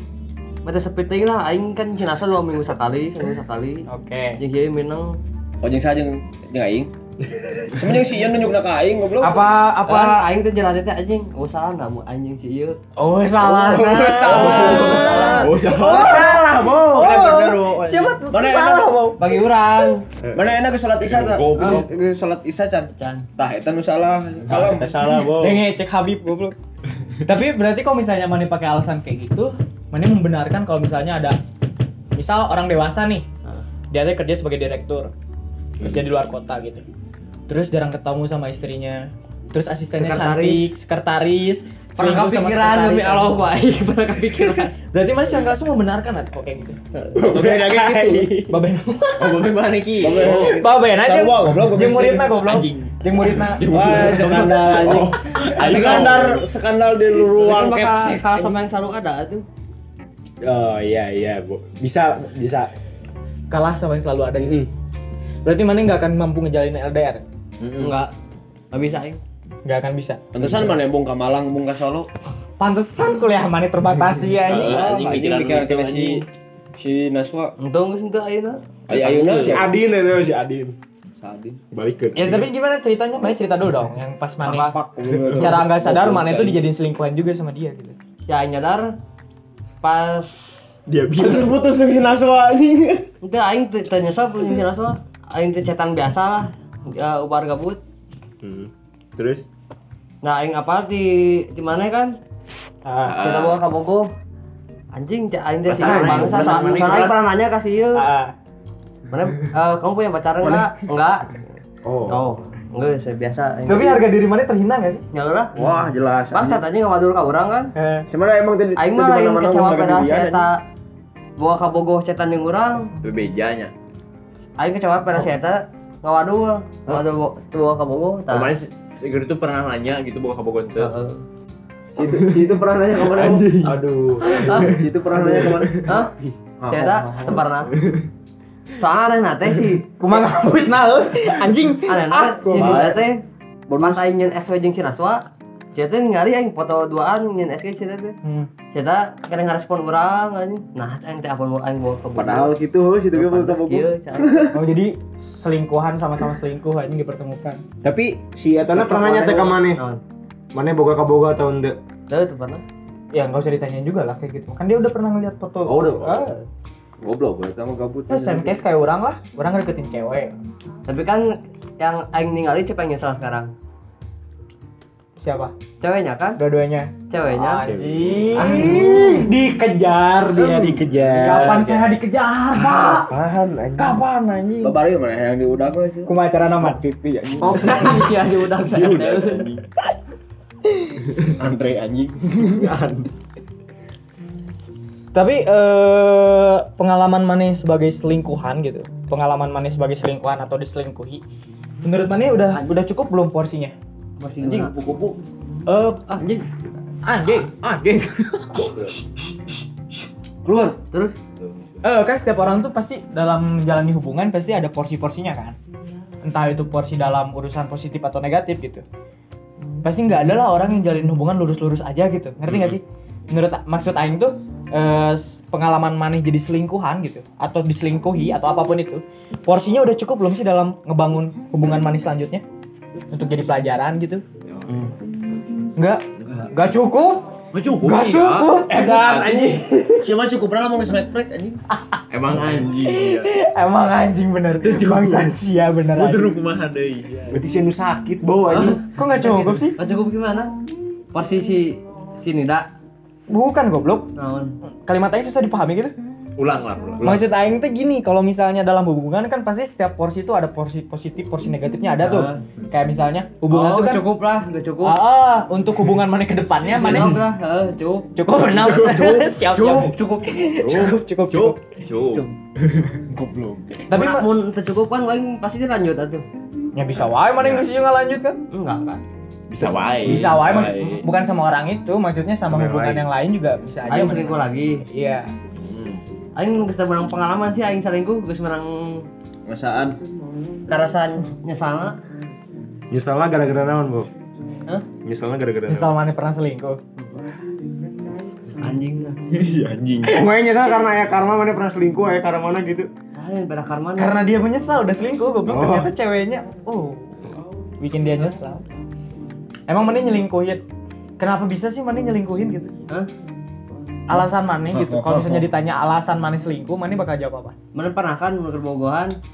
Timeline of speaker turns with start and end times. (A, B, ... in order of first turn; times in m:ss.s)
0:00.6-0:05.2 A
0:03.9-0:04.4 B
0:05.6-0:06.9 C
0:07.3-0:07.8 D
0:07.7-0:09.4 C
0:09.2-0:10.2 B
0:09.8-0:12.8 A
0:13.0-0:19.2 B
0:13.4-0:18.9 C
0:14.2-0:14.6 D
0:14.3-0:15.5 A
0:14.4-0:16.2 E
0:15.4-0:16.4 D
0:19.2-0:20.0 A
0:20.3-0:25.6 C
0:21.0-0:21.9 E
0:21.6-0:21.8 A
0:23.0-0:23.3 A
0:24.5-0:25.4 D
0:25.3-0:26.5 B
0:27.2-0:31.4 B
0:32.1-0:33.2 B
0:33.9-0:35.1 B
0:35.8-0:36.8 B
0:37.5-0:43.4 B
0:39.9-0:40.7 A
0:42.0-0:44.7 A
0:44.8-0:46.8 B
0:47.1-0:48.5 D
0:47.2-0:48.4 C
0:48.4-0:49.4 B
0:49.2-0:50.6 E
0:50.0-0:52.4 C
0:50.1-0:53.7 B
0:52.4-0:55.1 E
0:53.7-0:58.6 C
0:54.5-0:56.5 D
0:55.4-0:56.2 A
0:57.2-0:59.4 A
1:00.4-1:02.7 D
1:03.5-1:04.6 B
1:04.4-1:04.7 D
1:05.4-1:07.2 B
1:07.6-1:08.0 E
1:07.8-1:08.1 A
1:08.7-1:09.2 A
1:09.6-1:10.6 B
1:10.3-1:12.1 C
1:12.6-1:14.8 B
1:14.5-1:16.3 E
1:14.5-1:16.2 C
1:14.6-1:15.0 A
1:16.8-1:17.5 C
1:17.6-1:18.6 A
1:18.9-1:19.6 E
1:18.9-1:19.7 C
1:19.5-1:20.8 D
1:21.2-1:21.6 C
1:21.7-1:22.5 D
1:22.1-1:28.0 B
1:24.4-1:26.5 C
1:25.0-1:25.6 D
1:28.3-1:28.9 A
1:29.8-1:30.6 A
1:30.9-1:31.5 D
1:31.2-1:33.1 C
1:33.2-1:37.8 A
1:38.4-1:39.4 D
1:40.2-1:42.2 A
1:42.8-1:43.2 B
1:43.0-1:43.6 E
1:43.1-1:44.1 A
1:44.9-1:48.0 A
1:45.7-1:47.1 D
1:45.8-1:47.1 B
1:45.9-1:47.1 C
1:47.9-1:48.3 B
1:49.1-1:51.4 A
1:50.4-1:50.7 C
1:51.8-1:52.2 D
1:52.0-1:54.0 A
1:53.6-1:55.0 B
1:55.1-1:55.6 A
1:55.6-1:56.0 D
1:55.6-1:56.6 C
1:56.3-1:57.7 A
1:57.7-1:58.1 B
1:58.1-2:00.4 C
1:58.8-2:00.6 A
2:01.4-2:02.9 A
2:03.0-2:03.7 E
2:04.6-2:08.5 A
2:08.3-2:10.9 E
2:10.8-2:11.2 A
2:12.0-2:13.7 C
2:12.0-2:12.4 D
2:13.0-2:15.9 D
2:14.2-2:14.7 A
2:14.4-2:16.0 C
2:15.8-2:16.1 A
2:16.6-2:17.4 C
2:16.6-2:17.7 A
2:18.8-2:20.0 A
2:20.0-2:22.9 B
2:21.8-2:23.2 A
2:22.5-2:23.0 C
2:23.7-2:24.0 C
2:23.8-2:25.2 A
2:25.7-2:28.1 A
2:28.2-2:28.5 B
2:28.7-2:32.5 A
2:32.2-2:34.5 C
2:33.1-2:34.5 A
2:34.5-2:37.6 B
2:37.8-2:39.8 D
2:38.7-2:39.6 C
2:39.6-2:40.0 A
2:40.5-2:41.8 D
2:42.1-2:42.6 A
2:43.1-2:46.4 B
2:45.6-2:46.3 D
2:46.0-2:46.2 C
2:47.0-2:48.6 C
2:48.1-2:50.3 B
2:50.9-2:53.5 A
2:55.2-2:55.5 B
2:55.8-2:56.4 A
2:56.4-2:59.3 B
2:57.1-2:57.6 A
2:57.7-3:01.8 D
2:57.8-2:58.4 E
2:58.4-2:59.3 C
3:00.2-3:01.8 C
3:01.2-3:03.1 B
3:02.8-3:04.0 D
3:03.8-3:04.8 B
3:04.6-3:08.0 C
3:06.0-3:06.8 B
3:07.4-3:09.5 A
3:07.7-3:07.9 E
3:08.6-3:09.6 E
3:11.4-3:12.7 C
3:12.5-3:13.1 D
3:15.1-3:21.2 B
3:21.8-3:23.7 B
3:24.2-3:24.7 A
3:24.4-3:25.2 C
3:25.7-3:26.0 B
3:26.1-3:26.4 C
3:27.0-3:28.9 B
3:28.7-3:29.0 E
3:30.4-3:30.8 C
3:30.9-3:31.2 A
3:31.4-3:31.8 E
3:31.8-3:35.6 B
3:36.2-3:38.8 B
3:39.8-3:52.4 B
3:53.1-3:54.2 B
3:54.7-3:54.9 A
3:55.8-3:59.4 B
3:56.2-3:56.5 E
3:57.5-4:01.0 E
3:58.7-3:59.9 D
4:00.0-4:01.6 C
4:01.7-4:06.4 B
4:02.1-4:03.3 E
4:04.9-4:05.3 E
4:05.9-4:07.4 E
4:07.3-4:08.8 D
4:08.4-4:10.5 A
4:08.8-4:09.8 B
4:11.1-4:12.7 A
4:13.3-4:14.1 B
4:14.1-4:14.5 A
4:14.8-4:16.0 B
4:16.4-4:17.2 E
4:17.0-4:24.0 B
4:22.0-4:22.4 A
4:23.5-4:25.0 A
4:24.8-4:27.2 B
4:26.7-4:28.1 A
4:28.1-4:31.6 B
4:28.5-4:30.0 D
4:31.3-4:32.2 E
4:33.1-4:33.8 C
4:33.9-4:34.3 B
4:33.9-4:36.2 A
4:36.7-4:38.4 B
4:37.4-4:37.6 E
4:38.5-4:39.0 A
4:39.5-4:41.1 E
4:40.0-4:45.3 B
4:42.5-4:43.0 D
4:43.8-4:44.8 A
4:45.6-4:46.0 E
4:46.4-4:49.1 A
4:49.4-4:50.0 C
4:50.7-4:52.0 A
4:52.9-4:54.1 D
4:55.0-4:55.9 D
4:55.7-4:56.8 B
4:57.0-4:57.2 A
4:58.5-4:59.2 A
4:59.4-5:00.0 E
5:00.0-5:02.9 D
5:03.1-5:04.2 A
5:04.0-5:07.2 B
5:05.5-5:05.9 D
5:07.8-5:08.6 B
5:09.7-5:10.6 B
5:11.2-5:12.7 B
5:14.1-5:17.5 B
5:14.7-5:15.4 C
5:17.7-5:19.2 A